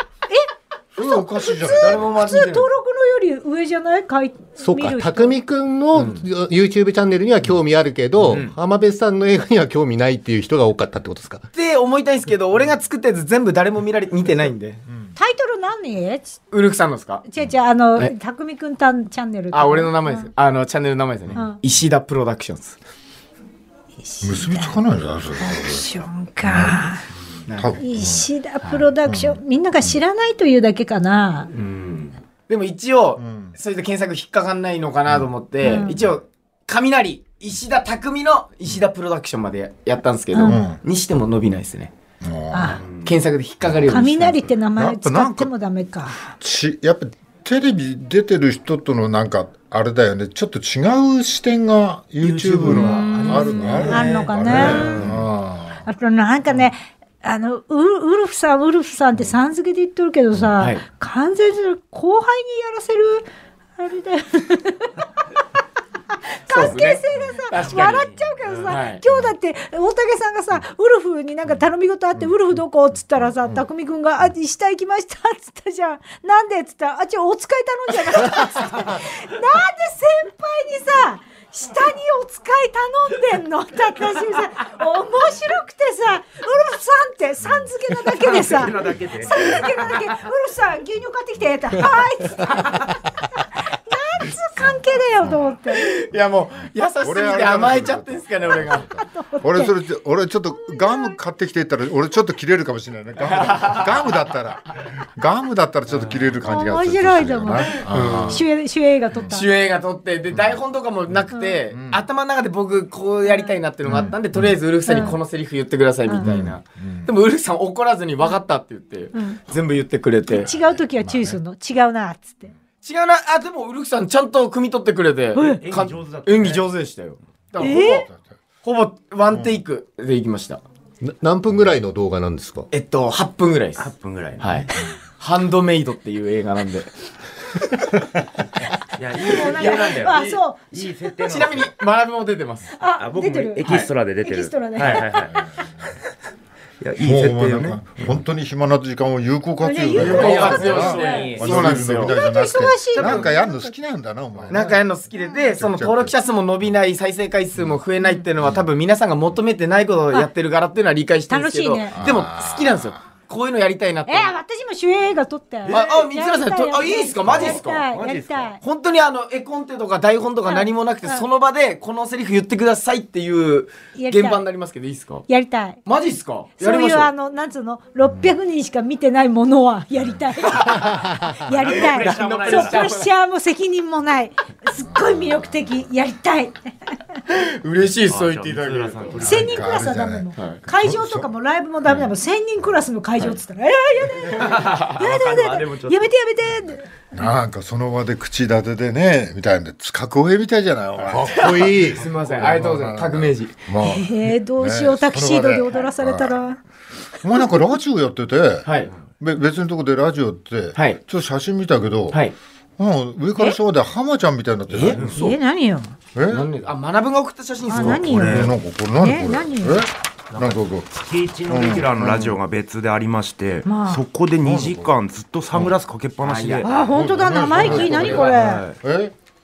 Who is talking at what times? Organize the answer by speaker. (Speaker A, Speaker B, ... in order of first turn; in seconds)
Speaker A: 0.3-5.3, 15.2-16.4, 17.2-20.3, 24.0-24.8, 25.4-27.0, 27.8-31.5, 35.6-36.0, 40.3-40.6, 42.5-42.8, 43.9-46.3, 52.7-55.1, 55.8-63.3, 63.8-65.0, 66.4-95.9, 98.9-99.8, 100.5-101.2, 106.4-109.5, 113.2-113.5, 114.8-115.2, 119.1-119.4, 120.3-122.5, 125.3-125.6, 127.6-128.0, 139.2-141.1, 142.8-143.7, 144.2-145.4, 149.6-153.7, 161.3-162.0, 164.1-168.6, 170.5-171.2, 173.9-174.4, 175.3-175.8, 176.6-186.9, 189.2-196.9, 203.8-206.6, 215.1-215.9, 217.7-219.8, 223.7-224.0, 226.6-228.6
Speaker B: 0.9-2.1, 24.2-25.9, 26.4-26.8, 27.5-28.3, 29.0-29.9, 33.2-33.5, 40.4-40.8, 42.2-42.8, 44.8-45.5, 46.4-55.8, 97.0-108.4, 111.7-112.0, 113.8-114.5, 116.2-117.1, 120.5-121.4, 127.7-128.2, 129.3-129.6, 147.0-154.8, 155.5-156.1, 161.9-163.0, 178.0-178.3, 184.9-185.4, 189.2-191.3, 197.1-201.7, 202.3-206.4, 207.2-212.2, 212.8-215.2, 216.1-216.5, 217.7-220.9, 221.5-222.4, 224.4-224.9, 226.8-229.1
Speaker C: 1.6-2.7, 5.9-6.2, 8.3-8.5, 11.5-14.8, 16.5-17.2, 19.5-22.8, 27.5-27.8, 32.5-41.9, 43.0-44.5, 53.7-55.1, 66.5-68.1, 68.7-69.0, 95.7-98.8, 103.3-103.8, 107.8-108.5, 109.3-120.5, 122.8-128.1, 128.6-130.6, 132.7-136.9, 139.2-140.4, 141.2-142.8, 150.0-152.1, 152.9-153.3, 154.5-164.3, 165.7-167.9, 168.6-175.2, 175.8-177.1, 181.7-183.1, 187.3-189.3, 190.3-190.6, 194.4-195.0, 201.3-203.6, 208.6-208.9, 214.8-215.2, 216.3-218.4, 226.2-226.7, 227.5-228.4
Speaker D: 4.6-11.4, 131.0-132.7, 201.1-202.0
Speaker E: 31.6-32.1, 42.8-43.2, 52.2-55.2, 67.6-68.6, 88.2-89.9, 125.6-126.7, 133.8-134.7, 139.0-141.7, 143.0-145.4, 146.8-148.2, 150.0-151.8, 165.7-165.9, 167.3-168.5, 181.5-182.9, 188.1-189.7, 194.3-196.1, 214.7-215.2, 218.0-218.5, 220.3-226.7, 228.0-228.7